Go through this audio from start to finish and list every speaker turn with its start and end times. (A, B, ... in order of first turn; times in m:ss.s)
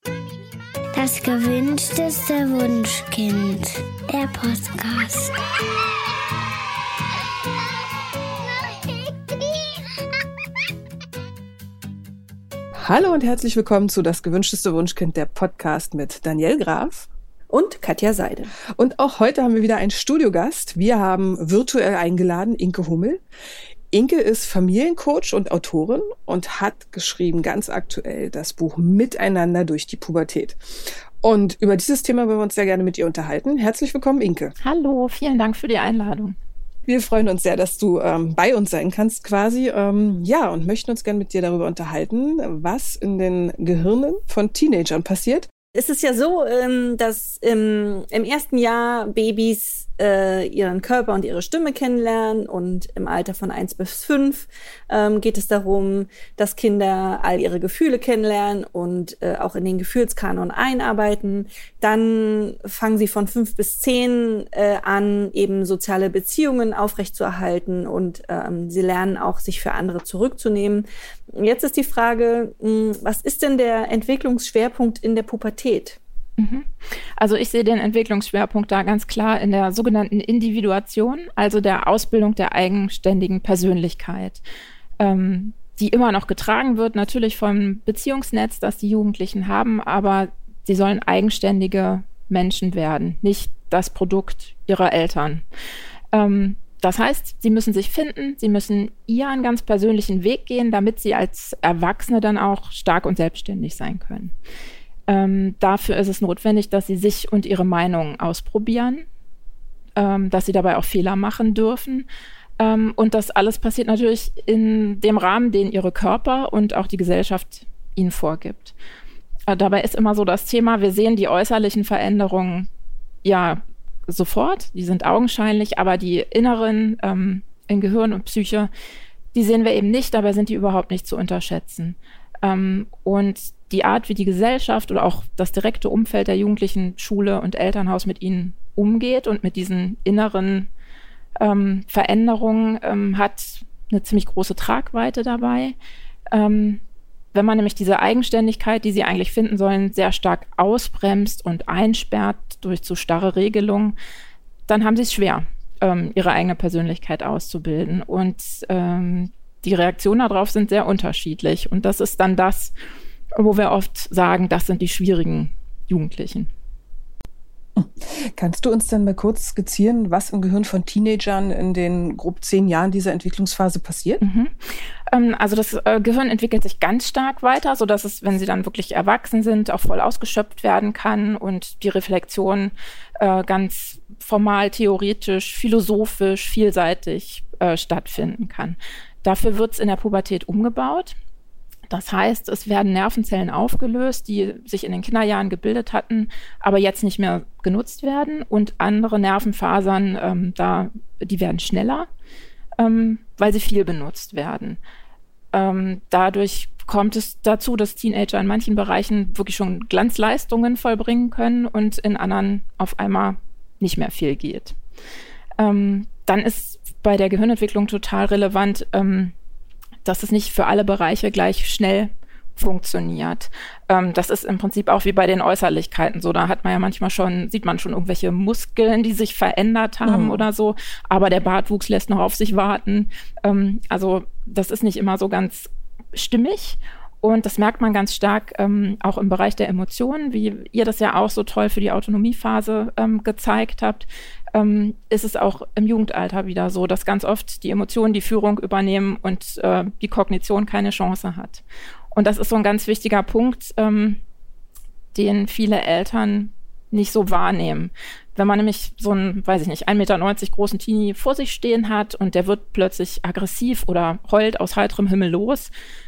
0:00.9-0:05.4 A
0:12.8-0:17.1 B
0:17.5-0:18.5 C
0:18.7-0:23.2 B
0:23.9-0:30.6 B
0:31.2-0:34.5 B
0:34.6-0:36.4 D
0:36.9-0:45.5 B
0:45.7-1:16.0 C
1:16.4-1:24.4 D
1:25.0-1:35.4 D
1:36.1-1:44.3 D
1:45.1-1:49.0 D
1:50.0-1:52.1 D
1:52.6-1:58.7 D
1:59.5-2:02.7 D
2:03.2-2:08.7 D
2:09.3-2:20.7 D
2:21.4-2:25.7 D
2:26.3-2:26.8 D
2:27.3-2:34.0 D
2:34.7-2:42.7 D
2:43.3-2:46.5 D
2:47.8-2:54.2 B
2:54.2-3:11.2 D
3:11.9-3:22.1 D
3:22.8-3:24.8 D
3:25.5-3:34.8 D
3:35.6-3:39.3 D
3:40.0-4:11.6 D
3:50.0-3:50.4 B
4:12.1-4:14.2 D
4:15.1-4:25.7 D